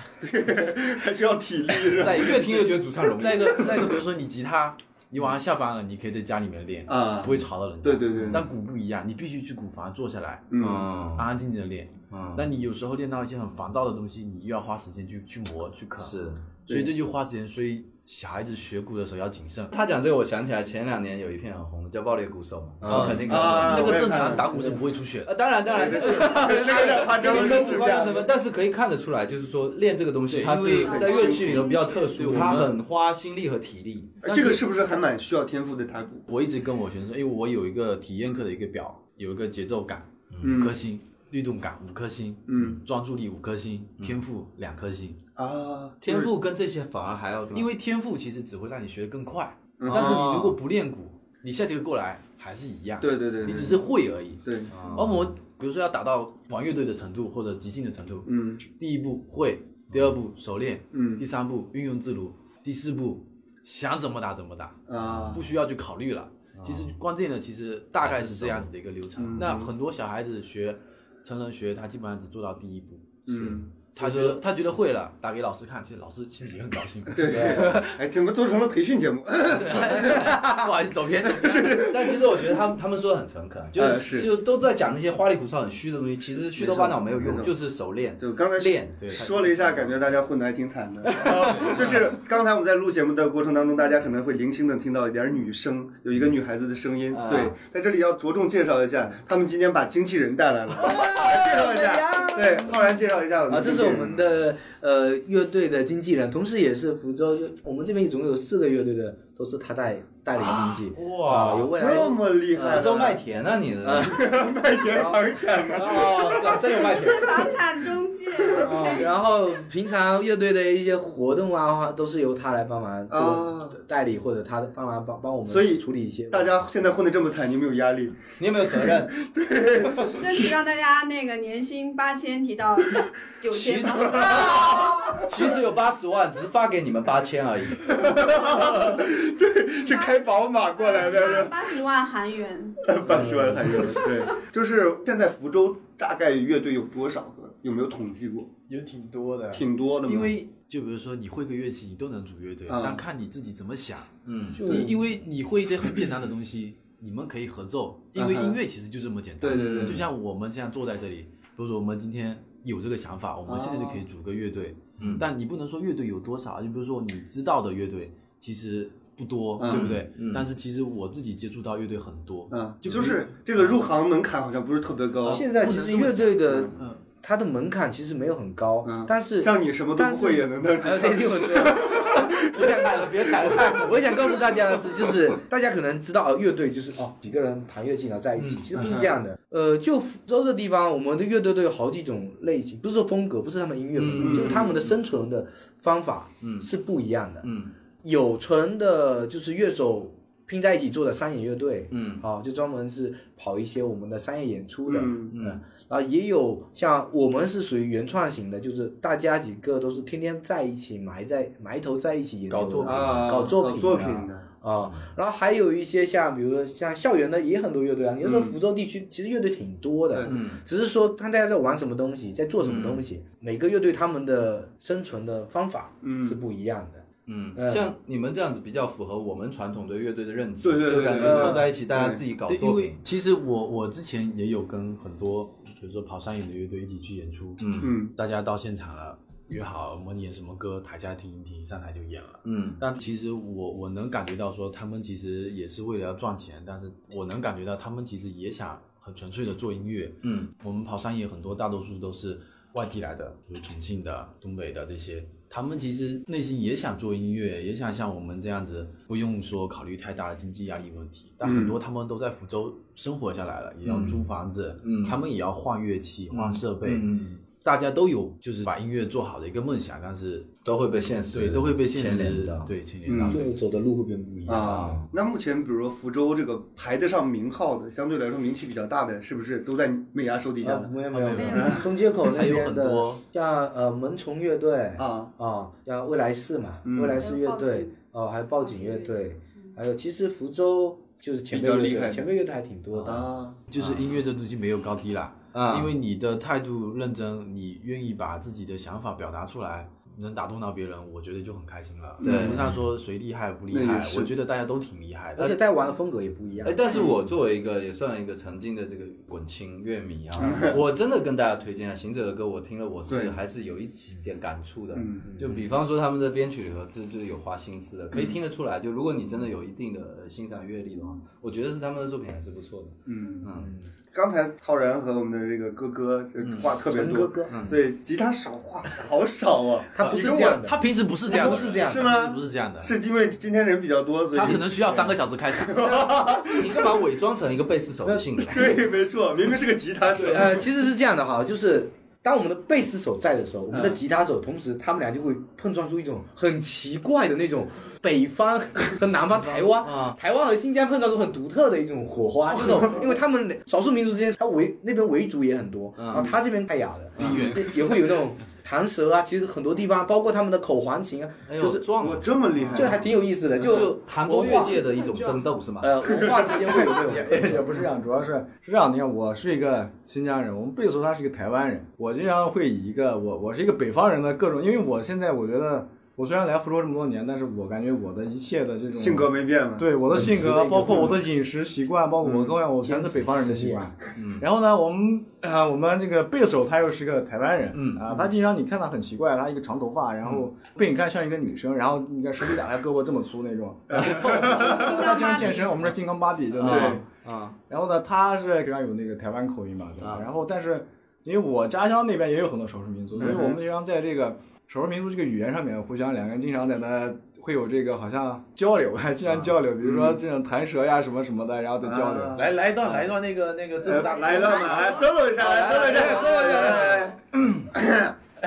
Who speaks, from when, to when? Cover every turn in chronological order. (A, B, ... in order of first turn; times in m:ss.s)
0:00.2-0:02.4 A
0:01.9-0:10.6 B
0:02.0-0:03.9 C
0:06.9-0:08.5 A
0:10.5-0:10.9 A
0:10.6-0:11.3 C
0:11.1-0:19.7 B
0:12.1-0:12.5 C
0:16.0-0:16.4 C
0:19.7-0:24.4 C
0:22.8-0:24.6 A
0:22.8-0:27.0 B
0:25.2-0:34.2 C
0:25.7-0:28.3 A
0:26.4-0:28.2 D
0:30.3-0:32.8 B
0:30.8-0:32.2 E
0:30.9-0:31.7 A
0:34.2-0:36.3 A
0:34.2-0:34.6 B
0:36.3-0:45.2 B
0:40.3-0:40.6 C
0:40.4-0:40.8 A
0:42.5-0:42.8 A
0:45.4-0:46.3 A
0:46.0-0:47.7 C
0:47.5-1:18.0 B
0:49.8-0:50.3 A
0:49.9-0:50.6 C
0:53.0-0:53.9 A
0:54.4-0:54.7 A
0:54.7-0:55.3 C
0:58.3-0:58.6 A
0:59.9-1:00.2 C
1:00.9-1:01.2 A
1:04.9-1:05.5 A
1:05.0-1:05.3 C
1:06.6-1:06.9 C
1:08.0-1:08.7 C
1:09.2-1:09.7 A
1:13.3-1:13.7 A
1:14.0-1:14.4 C
1:17.1-1:20.4 A
1:19.5-1:21.9 B
1:21.3-1:22.4 A
1:21.7-1:30.0 C
1:23.8-1:24.3 A
1:26.6-1:27.6 A
1:28.2-1:44.2 A
1:29.0-1:29.3 B
1:31.1-1:32.0 C
1:31.4-1:32.0 B
1:37.1-1:37.5 C
1:40.8-1:42.7 D
1:43.5-1:52.8 D
1:50.4-1:52.1 C
1:51.7-1:53.2 A
1:52.6-1:54.3 C
1:53.8-1:54.2 D
1:54.0-1:56.6 A
1:54.9-1:55.2 D
1:55.7-1:57.5 C
1:56.6-1:59.1 E
1:58.6-1:59.0 C
1:58.8-2:06.6 D
2:03.1-2:03.8 A
2:05.4-2:10.5 A
2:08.4-2:09.2 C
2:10.1-2:15.2 E
2:13.5-2:18.0 C
2:14.2-2:15.1 A
2:17.9-2:21.7 A
2:19.8-2:22.9 E
2:22.8-2:28.5 A
2:23.2-2:23.6 D
2:28.7-2:53.8 B
2:29.5-2:30.4 A
2:32.7-2:33.0 A
2:34.3-2:34.7 C
2:34.6-2:34.9 A
2:38.2-2:38.6 A
2:39.4-2:40.1 A
2:39.5-2:40.1 C
2:43.5-2:44.0 A
2:45.0-2:45.2 C
2:49.6-2:50.0 A
2:49.7-2:50.4 C
2:52.5-2:55.4 A
2:55.2-2:57.0 B
2:55.3-3:17.5 D
2:58.8-3:02.8 A
3:02.6-3:04.0 C
3:08.4-3:08.7 C
3:08.8-3:09.1 A
3:14.0-3:14.9 C
3:14.2-3:14.8 A
3:16.4-3:16.7 C
3:17.4-3:17.7 C
3:18.0-3:47.0 D
3:21.9-3:22.2 C
3:24.9-3:25.4 A
3:25.3-3:25.6 C
3:32.5-3:33.4 C
3:32.8-3:34.5 A
3:38.2-3:38.6 A
3:40.1-3:40.4 A
3:40.3-3:40.6 C
3:42.6-3:43.0 C
3:46.0-3:46.4 A
3:47.3-3:53.0 C
3:47.6-3:47.9 D
3:50.6-3:52.2 A
3:51.2-3:51.7 D
3:52.5-4:27.1 B
3:57.6-3:57.9 C
3:57.8-3:58.1 A
4:02.4-4:02.8 C
4:10.2-4:10.5 C
4:21.4-4:21.8 A
4:23.9-4:24.2 C
4:24.8-4:25.2 C
4:26.3-4:27.4 C
4:27.6-4:30.5 B
4:30.6-4:32.7 C
4:31.3-4:33.4 B
4:33.1-4:33.4 A
4:33.3-4:35.0 D
4:34.5-4:40.9 A
4:34.7-4:35.0 C
4:40.6-4:53.3 D
4:41.1-4:43.2 B
4:41.3-4:41.9 E
4:41.5-4:41.8 A
4:45.0-4:45.3 A
4:46.8-4:47.2 A
4:47.2-4:47.9 E
4:48.6-4:49.2 E
4:51.5-4:52.3 A
4:53.0-4:53.6 A
4:53.7-5:05.6 B
4:53.8-4:54.1 C
4:55.5-4:55.9 C
5:02.2-5:02.6 A
5:02.2-5:02.8 C
5:03.7-5:04.3 A
5:05.4-5:06.8 D
5:06.6-5:23.7 C
5:06.9-5:07.1 A
5:10.4-5:10.8 A
5:13.1-5:13.4 A
5:15.0-5:15.3 A
5:18.1-5:18.4 A
5:23.1-5:23.5 A
5:23.6-5:23.8 D
5:24.1-5:30.6 A
5:26.4-5:26.7 C
5:26.9-5:27.6 D
5:27.5-5:27.8 C
5:30.0-5:32.1 D
5:30.0-5:32.9 B
5:31.3-5:37.0 A
5:34.3-5:36.1 B
5:36.5-5:38.7 C
5:38.4-5:40.7 A
5:40.1-5:40.5 C
5:40.3-6:01.9 D
5:43.7-5:44.0 A
5:49.4-5:50.2 C
5:52.6-5:53.0 A
5:56.0-5:56.3 C
5:57.2-5:57.7 C
5:57.2-5:57.6 B
6:01.5-6:06.1 C
6:02.0-6:03.1 A
6:02.7-6:04.8 D
6:04.4-6:05.4 E
6:05.8-6:07.8 D
6:06.1-6:06.5 A
6:06.8-6:37.0 F
6:18.9-6:19.9 A
6:20.1-6:21.2 D
6:22.2-6:22.5 A
6:22.8-6:23.9 D
6:24.2-6:24.4 C
6:27.7-6:28.2 C
6:33.9-6:34.9 A
6:34.5-6:35.8 E
6:36.6-6:37.6 C
6:36.6-6:37.0 A
6:37.7-6:52.4 F
6:40.0-6:40.2 C
6:43.2-6:43.6 A
6:49.3-6:49.6 C
6:49.8-6:50.2 A
6:51.8-6:52.5 A
6:52.4-6:55.0 B
6:52.8-6:53.1 C
6:53.8-6:57.2 A
6:54.3-6:55.3 E
6:55.3-6:56.6 C
6:55.7-6:57.1 D
6:57.3-6:57.7 F
6:57.7-6:58.2 A